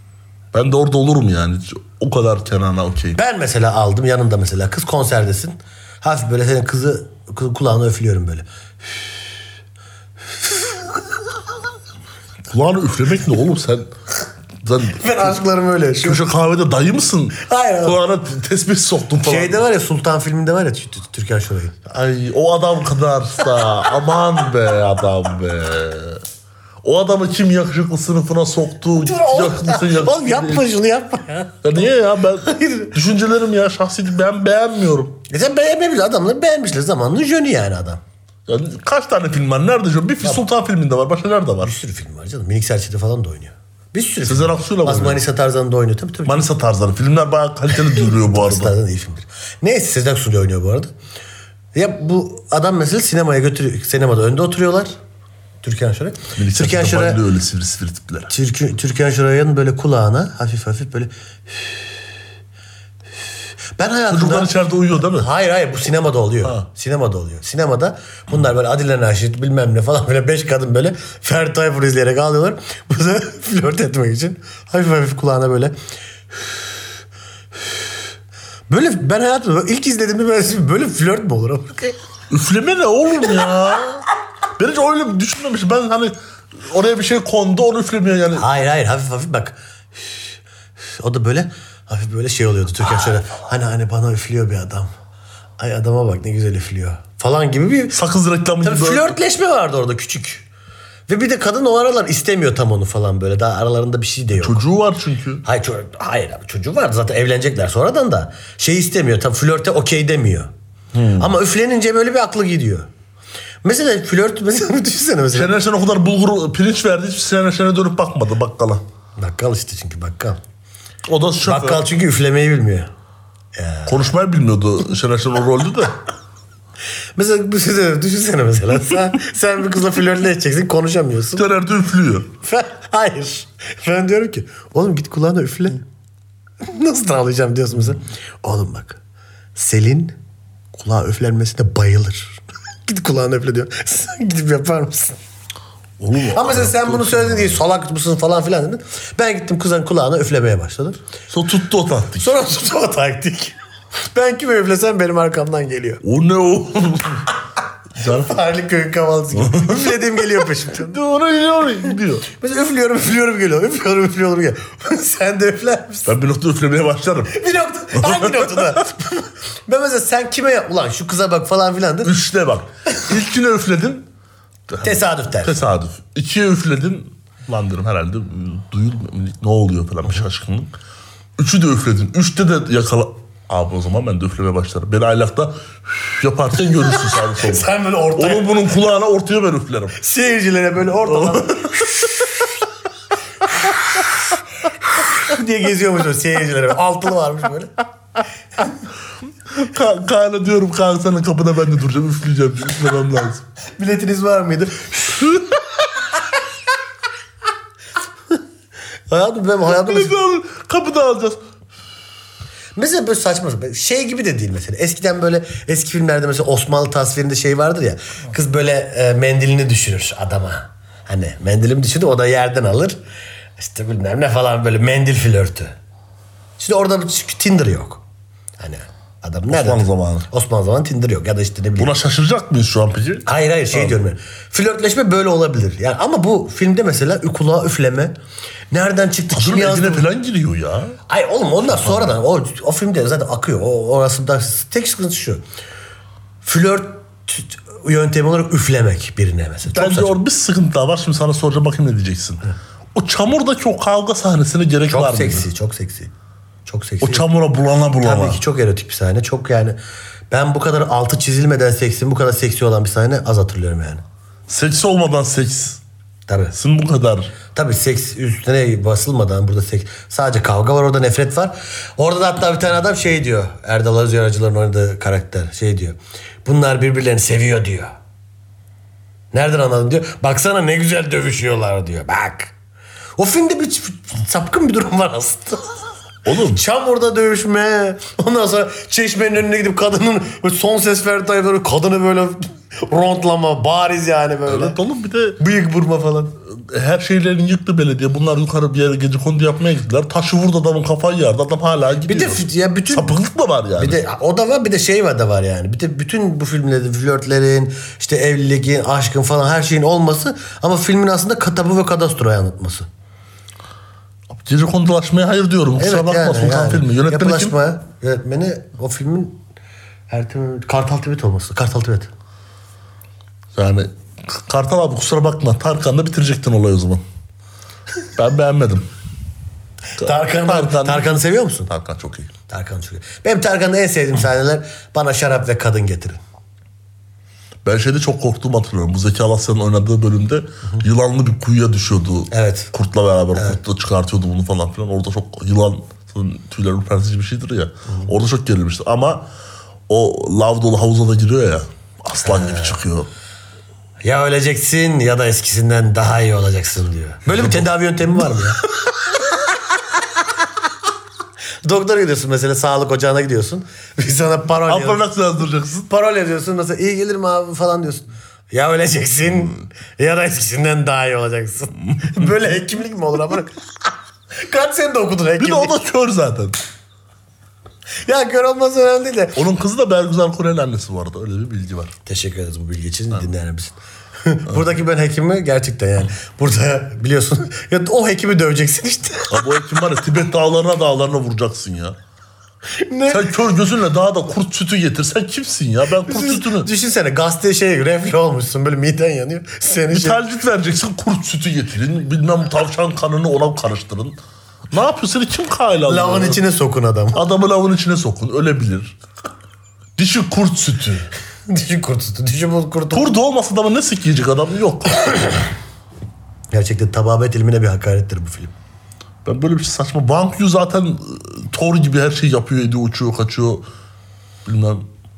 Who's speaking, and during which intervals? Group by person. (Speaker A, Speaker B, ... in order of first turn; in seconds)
Speaker A: 0.5-3.2, 12.5-13.9, 14.6-15.4, 16.0-19.6, 21.9-26.2, 26.8-30.7, 31.6-35.2, 38.5-41.7, 44.2-45.2, 46.2-48.7, 56.3-58.3, 64.1-65.3, 82.3-84.0, 84.6-88.5, 97.9-99.1, 104.4-105.4, 110.9-111.3, 115.3-118.8, 121.1-121.8, 123.9-125.9, 131.3-132.3, 146.0-147.6, 151.3-152.3, 156.0-157.3, 158.0-158.4, 159.3-159.9, 160.8-162.3, 166.1-168.8, 172.0-174.1, 174.7-180.7, 181.4-190.0, 191.1-192.0, 199.5-203.4, 209.7-211.4, 229.5-230.3, 231.8-233.9, 239.3-241.0, 249.7-255.5, 257.0-258.4, 264.5-265.8, 266.5-267.4, 286.2-286.6, 294.5-295.4, 296.5-304.0, 314.3-317.5, 323.5-327.0, 328.1-328.9, 330.0-332.3, 337.6-349.3, 349.9-353.1, 357.3-357.7, 364.6-365.9, 372.0-372.3, 375.4-376.6, 379.4-381.9, 389.3-391.9, 393.1-396.7, 399.9-404.2, 404.7-406.4, 407.1-408.9, 410.0-411.1, 412.9-415.2, 419.2-423.6, 424.4-424.8
Speaker B: 3.1-8.4, 10.4-11.0, 14.9-16.2, 17.4-18.0, 19.2-21.8, 29.0-31.6, 32.4-33.0, 35.3-38.0, 41.6-46.5, 47.9-50.9, 51.7-54.9, 55.6-57.2, 58.3-61.8, 63.8-64.5, 65.1-75.8, 78.7-82.0, 88.3-94.9, 95.6-98.0, 98.6-100.5, 101.1-104.6, 105.4-110.5, 111.2-112.9, 113.6-115.5, 119.2-120.4, 121.4-122.9, 123.5-124.1, 127.2-131.4, 132.4-135.8, 136.6-139.0, 139.6-140.1, 140.7-145.2, 146.3-151.0, 152.2-156.0, 158.0-161.0, 162.3-166.1, 167.3-172.1, 174.8-175.6, 187.1-188.5, 190.0-192.5, 193.6-194.1, 194.9-197.8, 203.8-206.2, 209.1-210.1, 212.8-223.0, 223.6-225.8, 226.6-228.0, 228.6-231.9, 233.2-238.2, 238.7-240.1, 241.1-245.4, 246.4-250.1, 254.9-256.1, 256.6-257.3, 258.0-259.8, 260.3-264.0, 266.3-266.5, 267.5-277.9, 279.3-282.5, 283.2-285.8, 286.4-294.8, 295.4-296.3, 302.1-303.1, 303.8-312.9, 315.8-319.4, 320.1-322.1, 330.0-331.7, 332.5-336.2, 342.3-342.7, 347.9-348.1, 352.2-352.8, 354.0-358.6, 361.6-365.0, 365.9-375.8, 378.0-379.4, 382.1-389.7, 392.7-393.3, 396.0-400.2, 405.9-407.2, 411.5-413.1, 416.5-418.5